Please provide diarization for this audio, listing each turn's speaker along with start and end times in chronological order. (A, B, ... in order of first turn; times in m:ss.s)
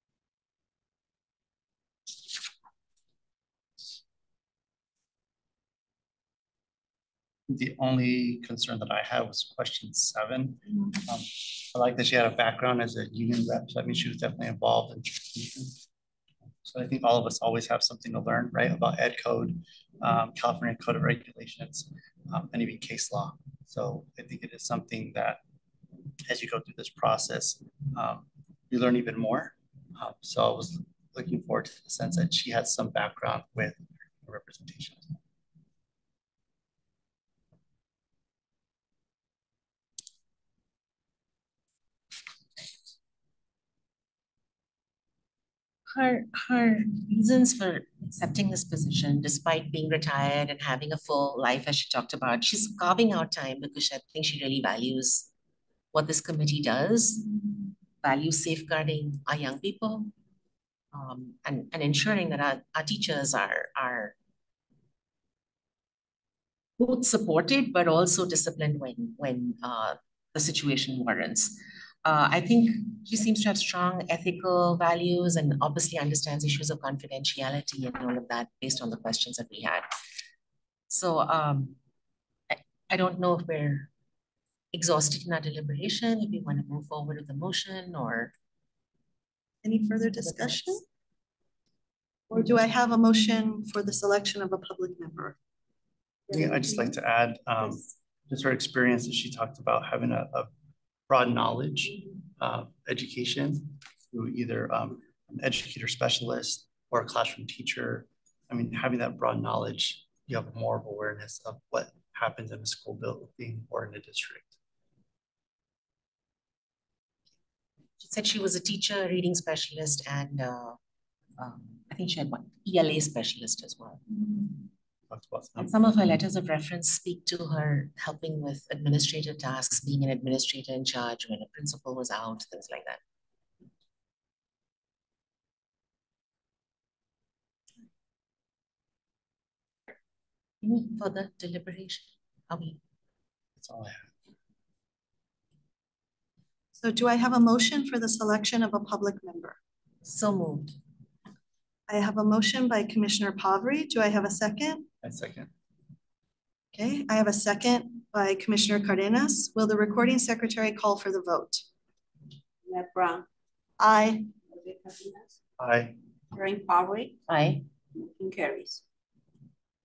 0:07.5-0:15.7 A
0:16.6-0:25.4 A
0:26.3-0:35.1 A
0:45.9-0:55.3 B
0:55.9-0:57.4 B
0:58.0-1:00.1 B
1:00.9-1:04.2 B
1:06.8-1:19.8 B
1:20.9-1:21.8 B
1:22.5-1:23.9 B
1:24.7-1:28.3 B
1:29.6-1:30.8 C
1:32.3-1:35.4 C
1:36.3-1:40.5 A
1:41.1-1:54.5 A
1:58.0-2:00.8 B
2:01.4-2:04.5 B
2:05.1-2:05.7 A
2:05.6-2:13.0 B
2:20.6-2:22.8 B
2:23.6-2:24.1 A
2:26.8-2:29.6 C
2:30.0-2:30.8 B
2:31.9-2:34.9 C
2:35.0-2:35.5 A
2:36.7-2:41.6 C
2:42.6-2:43.2 D
2:43.8-2:44.3 C
2:44.4-2:45.3 D
2:45.6-2:46.0 A
2:46.3-2:47.2 D
2:47.3-2:47.6 B
2:48.2-2:48.8 D